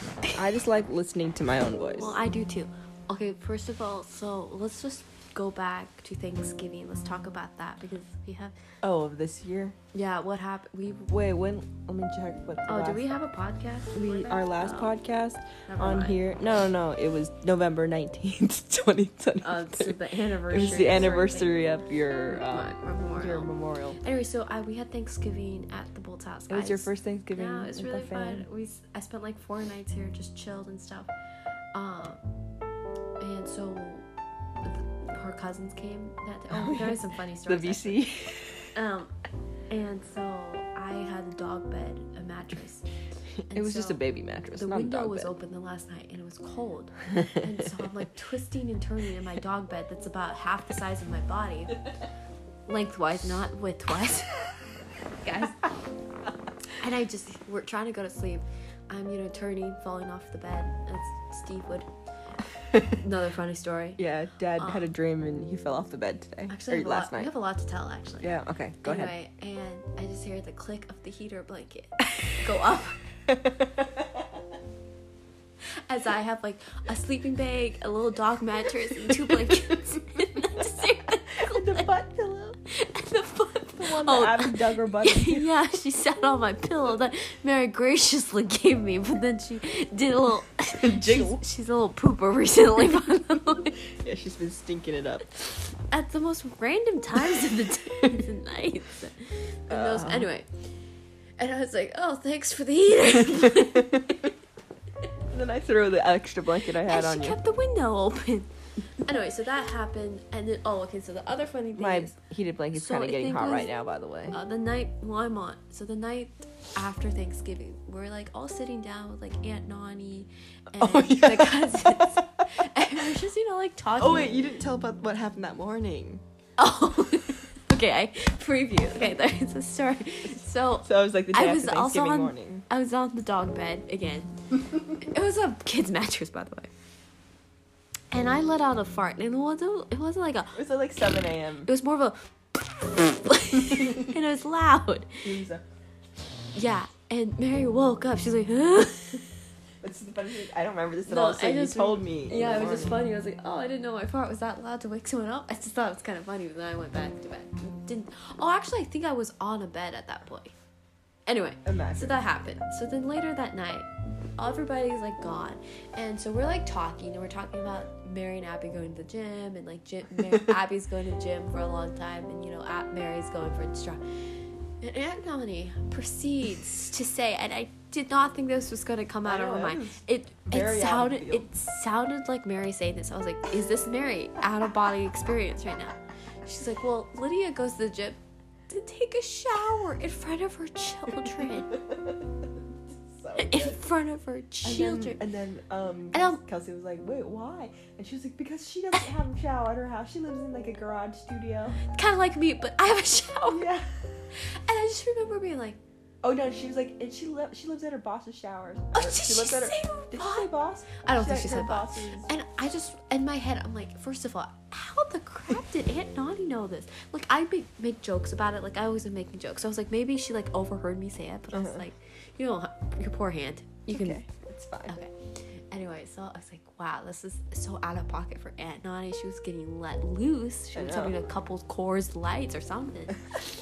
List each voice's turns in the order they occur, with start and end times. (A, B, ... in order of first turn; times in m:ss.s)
0:00.4-0:02.2 A
0:02.0-0:08.6 B
0:08.8-0:09.8 A
0:09.9-0:11.1 B
0:11.1-0:13.1 A
0:12.7-0:14.9 B
0:13.9-0:20.0 A
0:15.7-0:16.2 B
0:19.4-0:21.6 B
0:20.5-0:24.0 A
0:22.3-0:31.1 B
0:26.5-0:28.4 A
0:31.7-0:32.2 B
0:33.2-0:34.1 B
0:34.6-0:38.0 B
0:36.5-0:38.6 A
0:38.8-0:39.1 B
0:39.7-0:42.8 B
0:43.4-0:45.3 A
0:43.5-0:44.0 B
0:44.6-0:51.8 B
0:52.7-0:54.5 B
0:55.2-0:55.7 B
0:56.8-1:01.9 B
1:02.7-1:03.0 A
1:02.9-1:04.0 B
1:04.0-1:07.3 A
1:04.6-1:04.9 B
1:06.5-1:13.0 B
1:08.2-1:09.1 A
1:13.3-1:14.1 A
1:15.9-1:21.9 B
1:19.1-1:19.8 A
1:21.3-1:22.6 A
1:22.7-1:33.8 B
1:23.8-1:25.5 A
1:30.8-1:31.4 A
1:34.0-1:35.2 A
1:35.9-1:40.5 B
1:39.7-1:40.3 A
1:41.4-1:44.3 B
1:43.4-1:44.2 A
1:45.3-1:47.4 A
1:46.8-1:48.5 B
1:49.0-1:52.1 B
1:51.8-1:54.4 A
1:52.7-1:53.7 B
1:54.3-2:04.4 B
2:00.8-2:02.2 A
2:04.0-2:06.2 A
2:06.6-2:14.4 B
2:10.8-2:12.6 A
2:15.0-2:16.7 B
2:18.1-2:20.6 B
2:20.5-2:21.7 A
2:21.7-2:25.3 B
2:23.6-2:24.2 A
2:25.2-2:25.6 A
2:26.5-2:29.2 B
2:29.8-2:33.1 A
2:31.1-2:40.5 B
2:41.3-2:54.0 B
2:41.6-2:42.3 A
2:54.8-3:08.2 B
2:59.2-3:01.5 A
3:08.7-3:11.7 B
3:11.2-3:13.8 A
3:13.4-3:15.2 B
3:14.6-3:21.8 A
3:16.1-3:16.4 B
3:21.9-3:23.7 B
3:23.5-3:23.9 A
3:24.3-3:25.8 B
3:26.2-3:32.3 A
3:28.9-3:30.5 B
3:31.0-3:44.2 B
3:41.5-3:41.8 A
3:43.9-3:45.0 A
3:45.7-3:53.2 B
3:50.7-3:51.2 A